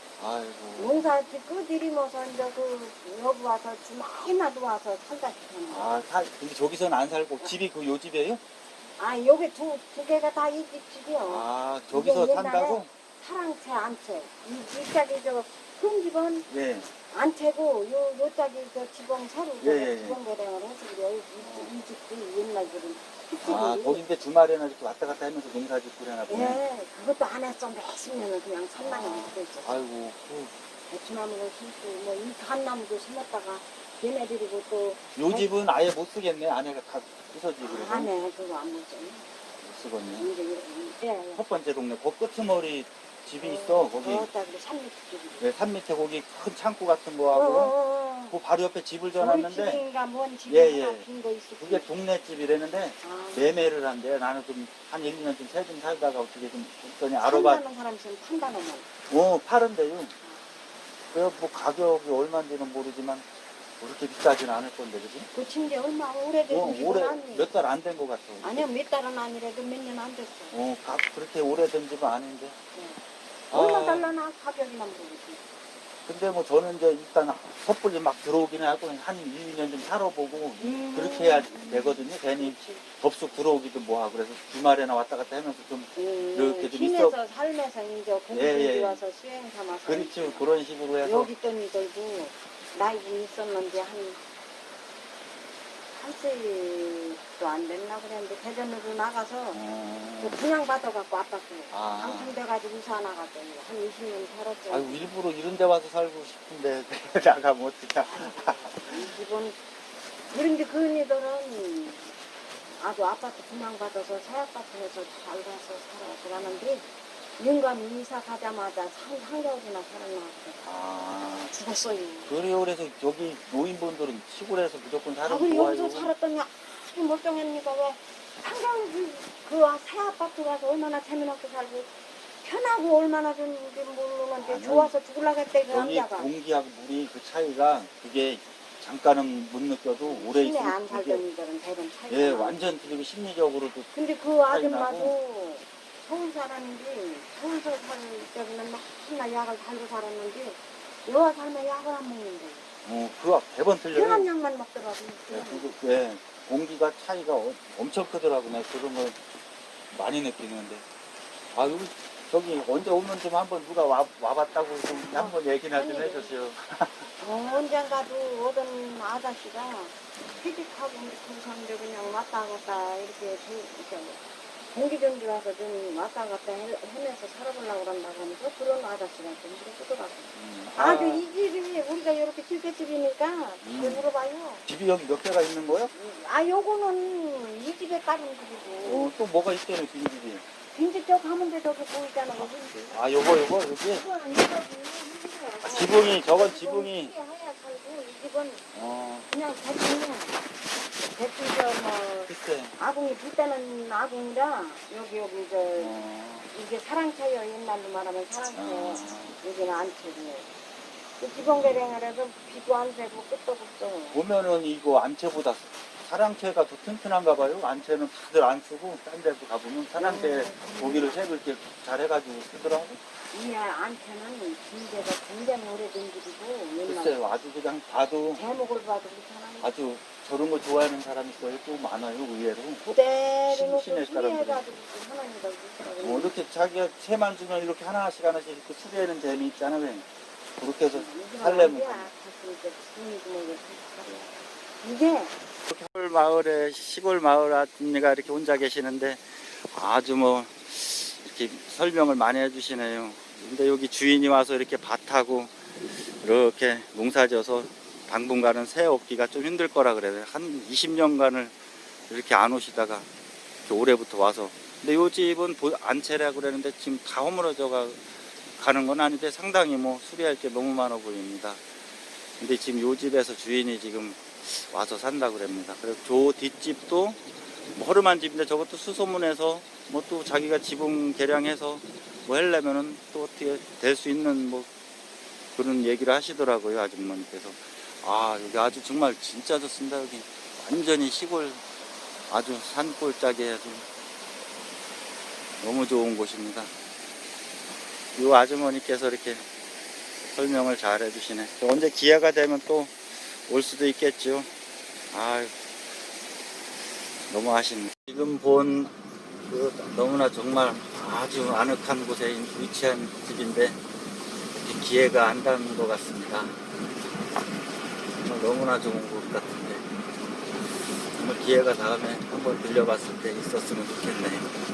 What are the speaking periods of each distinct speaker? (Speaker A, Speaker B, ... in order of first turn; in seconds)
Speaker A: 0.2-1.0, 5.7-8.4, 11.2-12.9, 16.5-16.9, 19.6-20.2, 21.4-21.7, 23.4-26.6, 28.8-30.5, 35.1-38.1, 39.6-40.3, 41.3-44.3, 45.4-47.7, 48.3-49.8, 50.5-51.0, 51.6-57.6, 59.1-60.1, 61.1-63.2, 63.8-65.3, 66.5-68.6, 70.5-72.5, 73.5-74.1, 76.0-87.2, 88.3-89.0, 89.8-91.3, 99.5-100.4, 101.7-102.3, 104.7-109.1, 120.6-121.5, 122.3-126.1, 134.4-134.9, 135.7-141.2, 142.1-143.9, 144.5-145.2, 152.8-154.3, 155.3-159.2, 159.9-160.8, 161.5-167.1, 180.3-181.2, 183.6-184.1, 184.7-185.9, 188.8-190.4, 192.4-194.1, 195.6-197.1, 198.7-199.3, 202.3-202.7, 205.8-206.5, 208.5-209.4, 214.1-223.0, 226.8-228.4, 229.6-232.8, 233.5-234.6, 236.0-240.1, 240.6-242.1, 245.7-263.1, 263.6-271.6, 272.4-277.2, 277.7-284.7, 285.5-291.6, 292.3-293.9, 295.6-296.7, 298.1-299.4, 300.3-304.5, 305.1-305.5, 307.3-308.9, 309.5-313.8, 314.5-316.6, 318.2-319.9, 321.1-324.5
Speaker B: 0.8-6.1, 9.0-16.5, 17.1-24.1, 26.3-29.8, 30.9-35.5, 37.6-39.3, 40.2-41.4, 43.4-45.5, 47.3-48.4, 49.2-51.9, 53.0-53.6, 57.2-58.9, 60.2-60.5, 65.3-67.5, 68.4-70.6, 72.7-73.0, 73.5-75.4, 80.6-82.8, 85.9-90.5, 91.0-94.2, 95.9-99.6, 100.2-105.1, 108.0-109.6, 110.3-112.1, 112.8-116.9, 117.4-120.6, 121.5-122.3, 125.2-131.9, 132.4-136.3, 140.0-142.6, 143.9-152.6, 153.9-155.7, 164.9-166.3, 167.2-184.6, 185.9-189.1, 190.7-193.1, 193.9-198.7, 199.3-200.4, 201.0-210.5, 211.2-214.2, 219.9-221.2, 223.3-227.2, 228.3-229.7, 232.8-236.3, 240.9-245.3